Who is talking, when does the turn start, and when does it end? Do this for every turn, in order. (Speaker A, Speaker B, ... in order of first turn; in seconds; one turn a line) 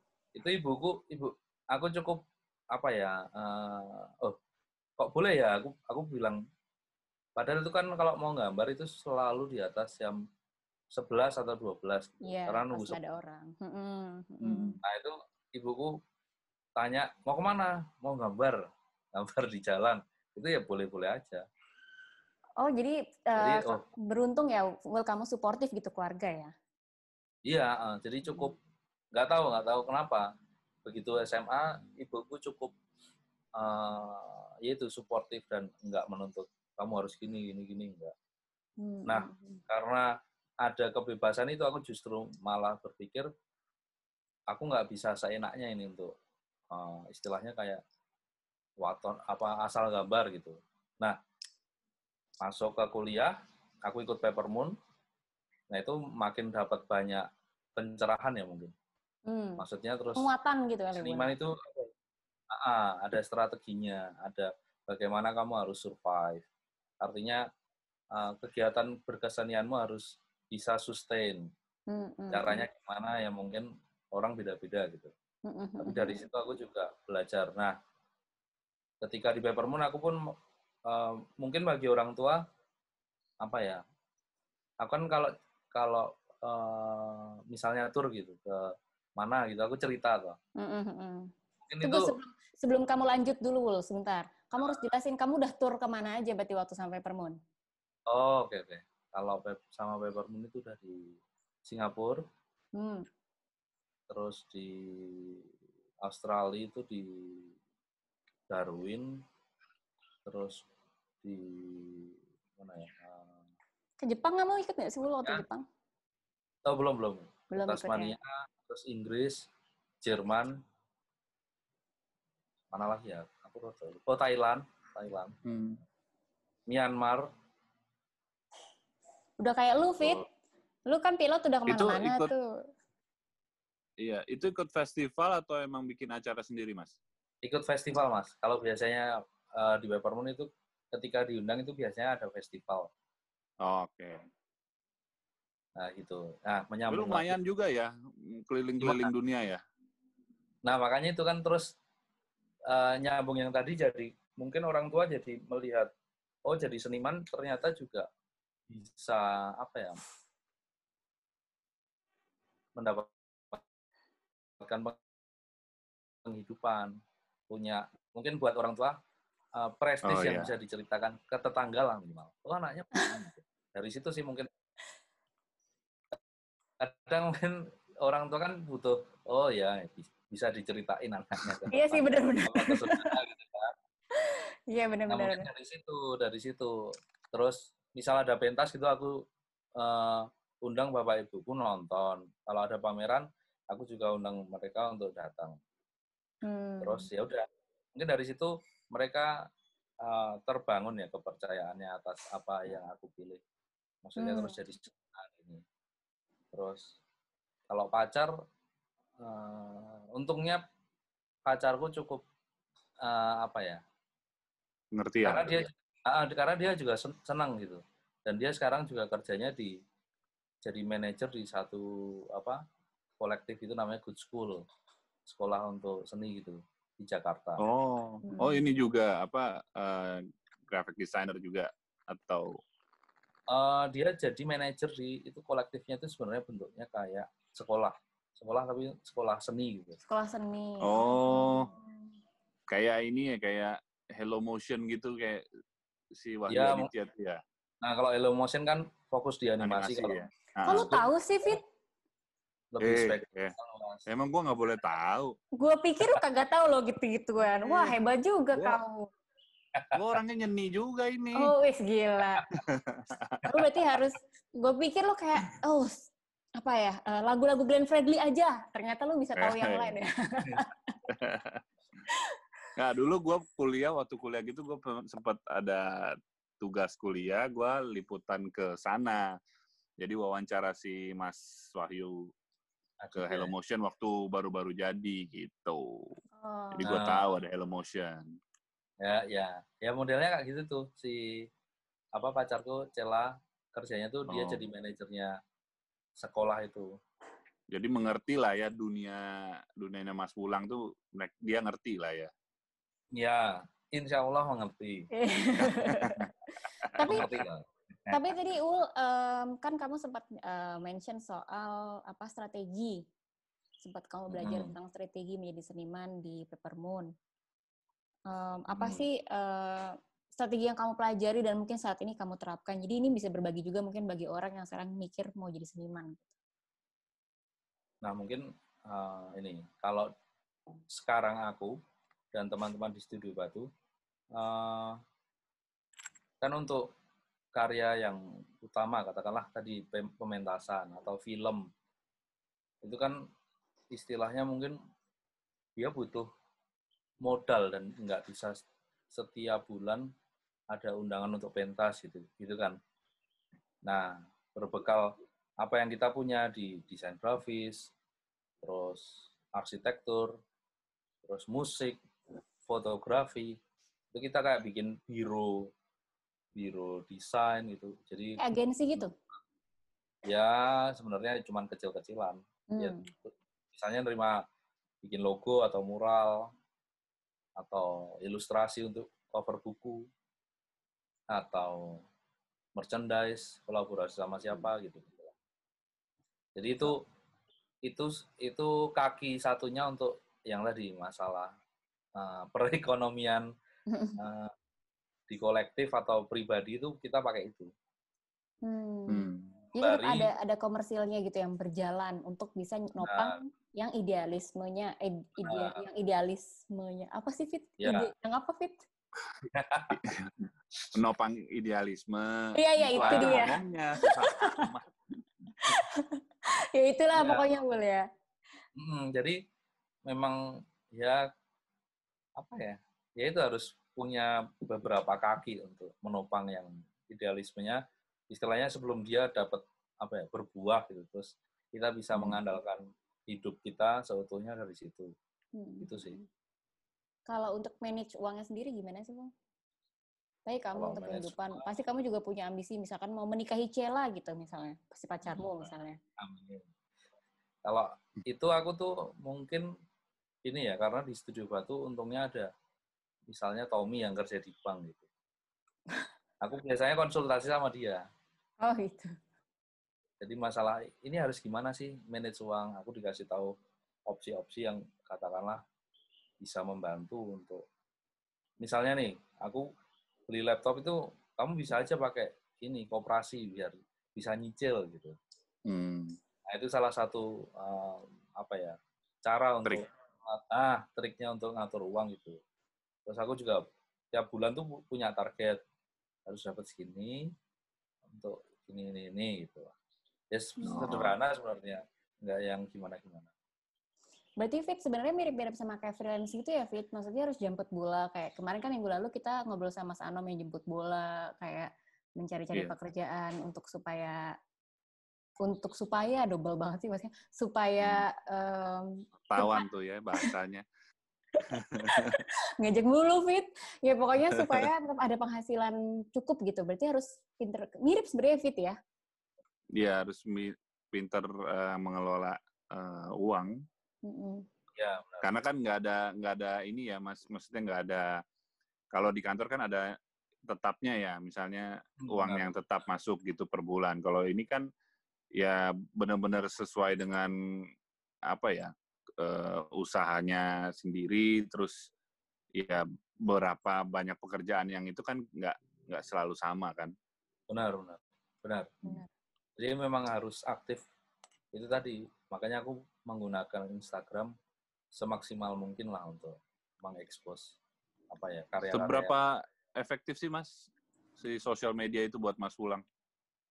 Speaker A: 0.3-2.2
Speaker A: 2.7-4.4
Speaker A: 5.0-6.4
Speaker A: 7.4-10.2
Speaker A: 10.9-13.0
Speaker B: 12.2-14.8
Speaker C: 14.4-14.8
Speaker A: 14.8-15.9
Speaker A: 16.8-18.6
Speaker A: 19.1-21.4
Speaker B: 22.6-26.5
Speaker A: 23.4-23.9
Speaker A: 27.5-28.6
Speaker A: 29.1-30.2
Speaker A: 30.9-32.7
Speaker A: 33.6-38.1
Speaker B: 38.8-39.6
Speaker A: 39.1-40.1
Speaker A: 40.6-43.3
Speaker A: 44.5-46.1
Speaker A: 46.7-47.8
Speaker A: 48.8-51.2
Speaker A: 52.4-54.7
Speaker A: 55.7-58.7
Speaker B: 59.3-59.6
Speaker A: 59.6-60.3
Speaker B: 60.2-61.3
Speaker A: 61.0-61.9
Speaker A: 62.5-66.5
Speaker A: 67.0-67.4
Speaker A: 68.1-71.5
Speaker B: 71.9-72.7
Speaker A: 72.3-75.1
Speaker B: 75.5-76.2
Speaker A: 75.8-77.8
Speaker A: 79.0-80.3
Speaker A: 80.9-82.4
Speaker A: 83.4-83.8
Speaker A: 84.8-90.4
Speaker B: 90.6-91.3
Speaker A: 91.7-92.1
Speaker B: 91.8-97.4
Speaker A: 94.6-94.8
Speaker A: 98.1-102.2
Speaker B: 102.8-103.1
Speaker A: 104.1-105.4
Speaker A: 106.0-107.5
Speaker A: 108.5-109.2
Speaker A: 110.3-110.6
Speaker A: 111.2-113.4
Speaker B: 114.0-115.7
Speaker A: 116.7-119.5
Speaker B: 117.5-118.2
Speaker A: 120.0-120.6
Speaker A: 122.7-125.4
Speaker C: 125.5-125.8
Speaker A: 126.7-127.3
Speaker B: 129.4-130.3
Speaker B: 130.9-132.5
Speaker C: 131.7-132.3
Speaker C: 134.0-137.0
Speaker A: 137.4-142.9
Speaker C: 143.6-144.2
Speaker A: 145.8-147.3
Speaker C: 146.9-149.6
Speaker A: 148.8-149.1
Speaker A: 150.7-151.7
Speaker A: 152.7-155.9
Speaker A: 156.5-158.1
Speaker A: 158.7-160.0
Speaker A: 162.8-163.6
Speaker A: 164.6-165.0
Speaker A: 166.2-166.9
Speaker A: 167.5-169.0
Speaker A: 169.6-174.5
Speaker C: 170.1-170.5
Speaker A: 176.8-183.7
Speaker B: 181.7-183.1
Speaker B: 184.1-185.5
Speaker A: 185.1-186.8
Speaker A: 187.3-189.2
Speaker A: 189.8-195.6
Speaker B: 196.4-197.1
Speaker A: 196.8-197.4
Speaker A: 197.9-199.4
Speaker A: 200.0-203.4
Speaker A: 204.0-205.6
Speaker B: 204.2-204.6
Speaker A: 206.5-206.9
Speaker A: 207.7-208.3
Speaker A: 209.2-210.6
Speaker A: 211.5-212.2
Speaker A: 213.0-213.8
Speaker C: 214.9-215.6
Speaker A: 215.2-219.8
Speaker A: 220.6-222.6
Speaker A: 223.2-224.7
Speaker A: 225.3-227.6
Speaker C: 227.6-232.5
Speaker B: 228.2-228.7
Speaker A: 233.5-240.0
Speaker B: 240.1-241.9
Speaker C: 240.8-241.7
Speaker C: 242.7-245.4
Speaker C: 246.1-247.4
Speaker A: 246.5-246.9
Speaker A: 247.8-250.2
Speaker C: 249.6-251.1
Speaker B: 250.7-251.6
Speaker A: 252.7-254.1
Speaker C: 252.8-253.5
Speaker C: 254.1-255.4
Speaker B: 255.6-259.1
Speaker C: 259.9-261.5
Speaker B: 261.4-262.4
Speaker C: 262.5-263.5
Speaker B: 263.4-271.0
Speaker C: 269.4-270.0
Speaker C: 271.1-271.6
Speaker C: 272.8-279.4
Speaker C: 280.0-282.3
Speaker A: 283.0-283.5
Speaker C: 283.1-286.1
Speaker B: 286.4-286.9
Speaker C: 286.7-288.3
Speaker A: 286.9-287.3
Speaker A: 289.0-291.5
Speaker A: 292.1-295.4
Speaker C: 294.3-294.7
Speaker A: 296.2-296.9
Speaker C: 297.7-302.3
Speaker A: 303.1-305.1
Speaker B: 305.1-306.2
Speaker C: 306.0-306.3
Speaker C: 306.9-307.3
Speaker B: 306.9-307.3
Speaker A: 307.0-308.2
Speaker B: 308.1-313.0
Speaker B: 313.8-317.1
Speaker A: 314.4-314.7
Speaker B: 318.3-326.3
Speaker A: 318.7-319.1
Speaker A: 328.0-330.1
Speaker A: 330.9-331.8
Speaker A: 332.3-333.7
Speaker A: 334.3-335.0
Speaker A: 336.4-336.9
Speaker A: 337.6-341.7
Speaker A: 342.8-343.2
Speaker A: 343.9-344.8
Speaker A: 345.8-346.3
Speaker A: 347.2-348.6
Speaker A: 349.1-350.1
Speaker A: 350.7-352.8
Speaker A: 353.9-357.9
Speaker A: 358.6-360.4
Speaker A: 361.2-362.0
Speaker A: 362.7-363.6
Speaker A: 364.1-365.7
Speaker A: 366.6-368.4
Speaker B: 368.4-369.1
Speaker A: 370.3-374.4
Speaker B: 372.7-373.1
Speaker A: 375.0-376.5
Speaker A: 377.6-380.1
Speaker A: 381.3-382.0
Speaker A: 382.8-385.3
Speaker A: 386.6-387.0
Speaker A: 387.9-391.5
Speaker A: 392.2-393.5
Speaker B: 393.9-394.2
Speaker A: 394.2-394.5
Speaker A: 395.3-397.7
Speaker B: 398.6-408.8
Speaker C: 399.1-399.5
Speaker A: 399.8-400.3
Speaker A: 403.0-403.3
Speaker A: 405.4-405.8
Speaker A: 407.8-408.1
Speaker A: 409.5-410.0
Speaker C: 409.9-414.9
Speaker B: 412.6-414.7
Speaker A: 412.9-413.5
Speaker B: 415.6-418.1
Speaker A: 417.2-417.4
Speaker A: 418.8-419.4
Speaker A: 420.1-421.3
Speaker A: 422.4-435.1
Speaker B: 435.6-436.3
Speaker A: 435.8-436.1
Speaker B: 437.3-439.3
Speaker B: 440.5-446.0
Speaker A: 440.8-441.6
Speaker A: 446.2-446.7
Speaker A: 447.6-449.7
Speaker A: 450.4-452.5
Speaker A: 453.3-455.1
Speaker A: 456.4-458.1
Speaker B: 458.6-459.1
Speaker A: 460.2-463.5
Speaker A: 464.1-465.6
Speaker A: 466.4-467.6
Speaker A: 468.6-469.7
Speaker A: 470.3-475.2
Speaker C: 475.7-476.2
Speaker A: 476.5-482.4
Speaker A: 483.1-485.6
Speaker A: 486.3-487.3
Speaker A: 488.1-489.7
Speaker A: 490.3-493.3
Speaker C: 490.7-491.2
Speaker B: 494.4-504.4
Speaker B: 505.4-509.6
Speaker C: 507.8-508.1
Speaker C: 509.3-510.6
Speaker C: 511.5-512.2
Speaker B: 511.8-518.8
Speaker C: 514.3-514.7
Speaker C: 519.7-523.6
Speaker B: 524.1-524.5
Speaker A: 524.8-525.3
Speaker C: 525.2-528.2
Speaker C: 528.9-529.9
Speaker C: 530.5-534.7
Speaker A: 532.0-532.5
Speaker C: 535.4-537.3
Speaker C: 538.3-541.8
Speaker C: 542.6-546.9
Speaker A: 547.5-548.9
Speaker A: 549.6-550.8
Speaker A: 551.5-554.3
Speaker A: 554.9-557.6
Speaker A: 558.1-559.1
Speaker C: 558.7-560.5
Speaker C: 561.2-562.8